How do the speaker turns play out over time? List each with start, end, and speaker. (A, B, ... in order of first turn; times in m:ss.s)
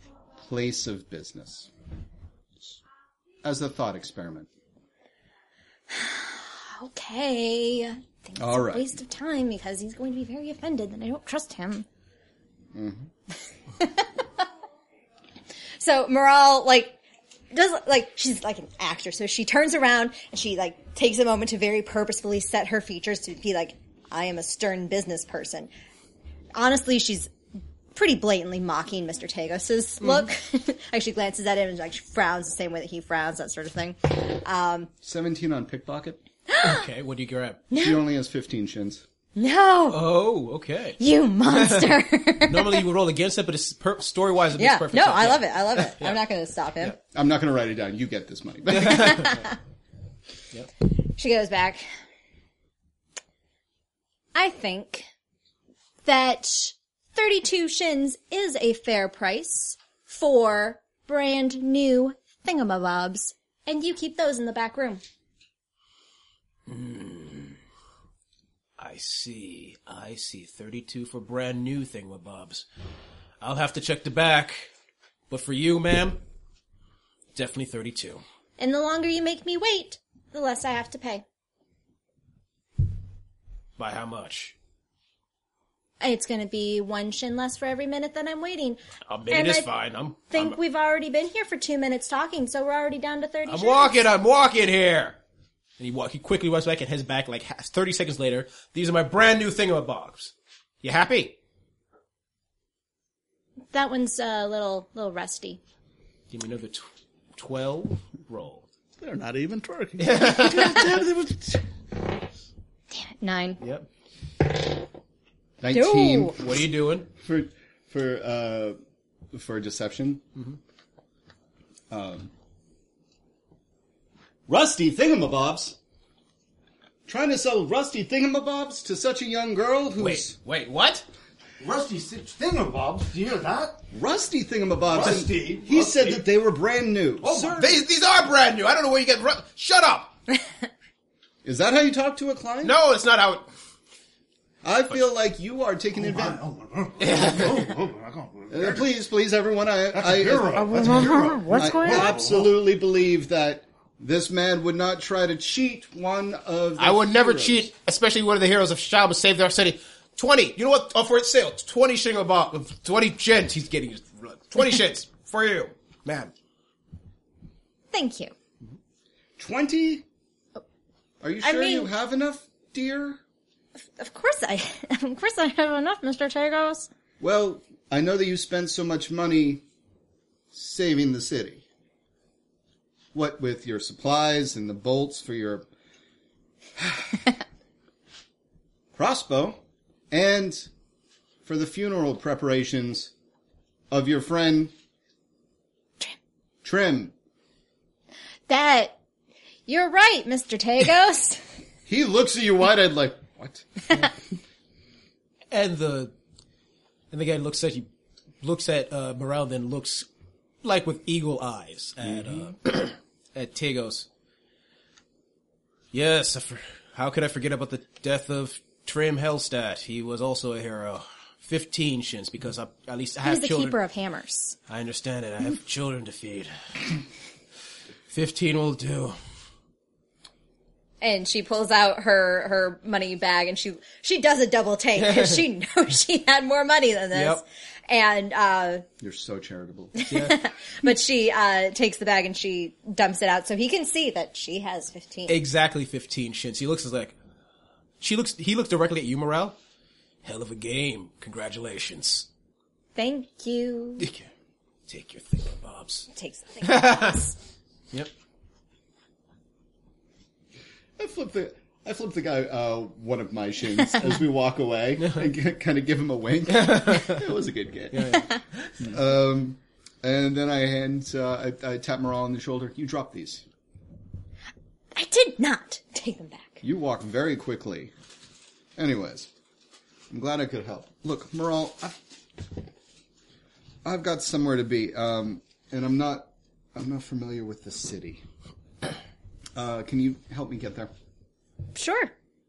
0:00.4-0:01.7 A
0:03.4-0:04.5 A
0:05.9-0:11.9 B
0:08.4-0:09.0 A
0:12.7-0:13.1 A
0:13.8-0:14.5 B
0:15.8-0:17.0 B
0:17.5-0:25.7 B
0:26.6-0:27.3 B
0:27.9-0:34.9 B
0:30.0-0:30.3 C
0:35.0-0:36.2 A
0:36.5-0:36.9 B
0:36.6-0:37.7 C
0:37.7-0:38.0 B
0:37.7-0:39.0 A
0:39.4-0:40.1 B
0:39.9-0:46.2 C
0:41.0-0:42.9 B
0:44.6-0:47.0 B
0:47.1-0:49.4 A
0:48.8-0:49.6 B
0:49.0-0:49.2 C
0:50.9-0:51.9 B
0:54.3-0:55.1 B
0:56.0-1:05.0 B
1:06.7-1:07.6 C
1:08.8-1:12.7 C
1:13.4-1:14.7 C
1:15.3-1:16.2 C
1:17.4-1:18.2 C
1:18.6-1:21.2 B
1:23.8-1:24.6 C
1:26.0-1:29.7 B
1:29.1-1:30.6 C
1:30.3-1:34.0 B
1:33.5-1:35.2 C
1:35.8-1:41.4 C
1:43.7-1:45.6 B
1:46.3-1:48.7 C
1:49.0-1:51.6 D
1:50.0-1:51.0 C
1:52.9-1:53.6 B
1:53.6-1:53.9 C
1:55.6-1:56.5 A
1:55.7-1:56.4 B
1:56.4-1:57.1 C
1:57.2-1:58.8 A
1:59.3-2:00.2 A
2:01.9-2:02.3 A
2:04.5-2:05.8 A
2:07.1-2:10.4 A
2:10.0-2:11.1 C
2:11.6-2:13.8 E
2:13.9-2:17.7 A
2:14.9-2:16.3 E
2:17.2-2:17.7 E
2:17.5-2:20.2 C
2:21.4-2:22.8 A
2:22.6-2:23.5 C
2:24.6-2:26.4 A
2:26.0-2:28.8 E
2:27.0-2:27.7 C
2:28.5-2:37.7 A
2:29.9-2:32.5 E
2:36.8-2:46.3 C
2:47.9-2:48.3 B
2:49.4-2:50.0 A
2:51.2-2:53.2 A
2:51.4-2:51.9 B
2:53.8-2:56.9 B
2:57.2-2:59.6 A
3:00.5-3:01.6 A
3:03.1-3:05.6 A
3:06.8-3:07.2 A
3:09.0-3:09.6 A
3:10.1-3:10.7 A
3:11.4-3:13.1 A
3:13.9-3:14.7 A
3:16.6-3:17.1 A
3:18.5-3:19.0 B
3:19.7-3:21.4 B
3:21.9-3:24.1 A
3:25.5-3:26.1 C
3:27.1-3:27.9 C
3:28.4-3:30.1 C
3:30.6-3:34.1 C
3:32.1-3:32.5 A
3:35.9-3:43.8 C
3:43.2-3:44.6 B
3:44.7-3:46.9 C
3:48.1-3:49.2 C
3:51.0-3:58.8 B
3:55.0-3:55.5 C
3:57.1-3:57.4 C
3:59.0-4:00.1 A
4:00.0-4:05.4 B
4:00.1-4:00.4 C
4:05.3-4:07.2 C
4:08.0-4:09.6 C
4:10.2-4:12.3 C
4:13.0-4:14.1 B
4:14.0-4:14.3 C
4:14.9-4:16.1 C
4:16.1-4:17.4 B
4:16.6-4:17.2 C
4:21.0-4:28.3 A
4:26.5-4:27.3 C
4:27.9-4:28.8 C
4:28.8-4:33.4 A
4:35.0-4:36.6 B
4:36.6-4:37.9 A
4:38.8-4:39.3 A
4:40.1-4:42.0 A
4:43.8-4:48.2 A
4:49.6-4:50.9 A
4:51.7-4:52.1 B